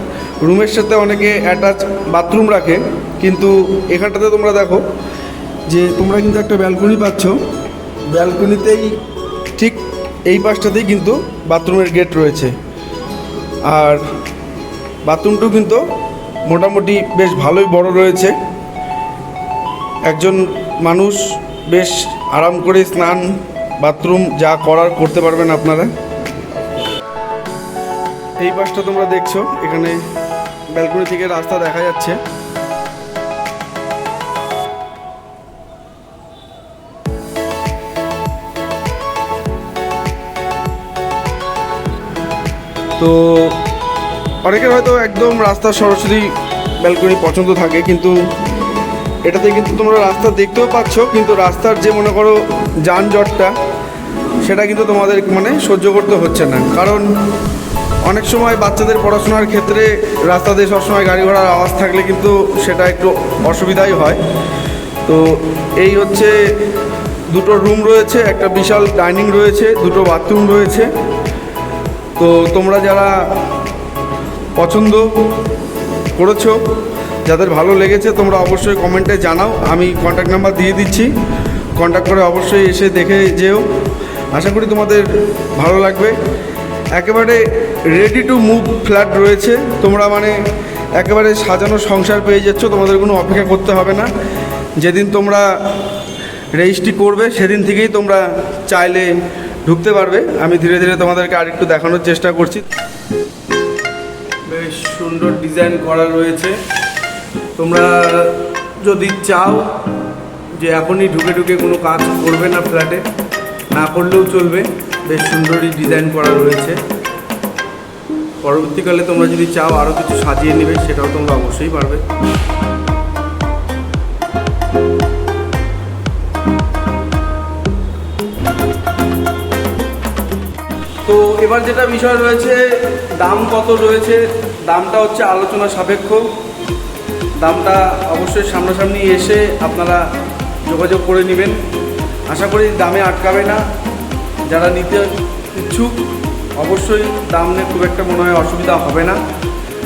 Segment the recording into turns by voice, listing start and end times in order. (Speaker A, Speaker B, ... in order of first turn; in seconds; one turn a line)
Speaker A: 0.4-4.8
Speaker A: 5.7-7.4
Speaker A: 8.1-9.0
Speaker A: 9.6-12.6
Speaker A: 13.6-14.0
Speaker A: 15.0-15.9
Speaker A: 16.4-18.4
Speaker A: 20.1-25.9
Speaker A: 28.4-30.0
Speaker A: 30.7-32.2
Speaker A: 43.0-43.6
Speaker A: 44.4-48.2
Speaker A: 49.2-53.5
Speaker A: 54.4-57.1
Speaker A: 58.0-64.2
Speaker A: 65.0-66.5
Speaker A: 67.3-70.9
Speaker A: 72.2-73.5
Speaker A: 74.5-75.3
Speaker A: 76.1-76.6
Speaker A: 77.2-81.1
Speaker A: 81.8-83.6
Speaker A: 84.3-86.2
Speaker A: 86.9-90.4
Speaker A: 90.9-94.1
Speaker A: 94.8-95.8
Speaker A: 96.5-102.7
Speaker A: 104.5-106.6
Speaker A: 107.6-109.7
Speaker A: 110.6-113.0
Speaker A: 113.7-116.8
Speaker A: 118.4-122.0
Speaker A: 131.1-136.3
Speaker A: 137.4-140.1
Speaker A: 140.6-141.6
Speaker A: 142.3-143.6
Speaker A: 144.5-146.0
Speaker A: 146.6-149.2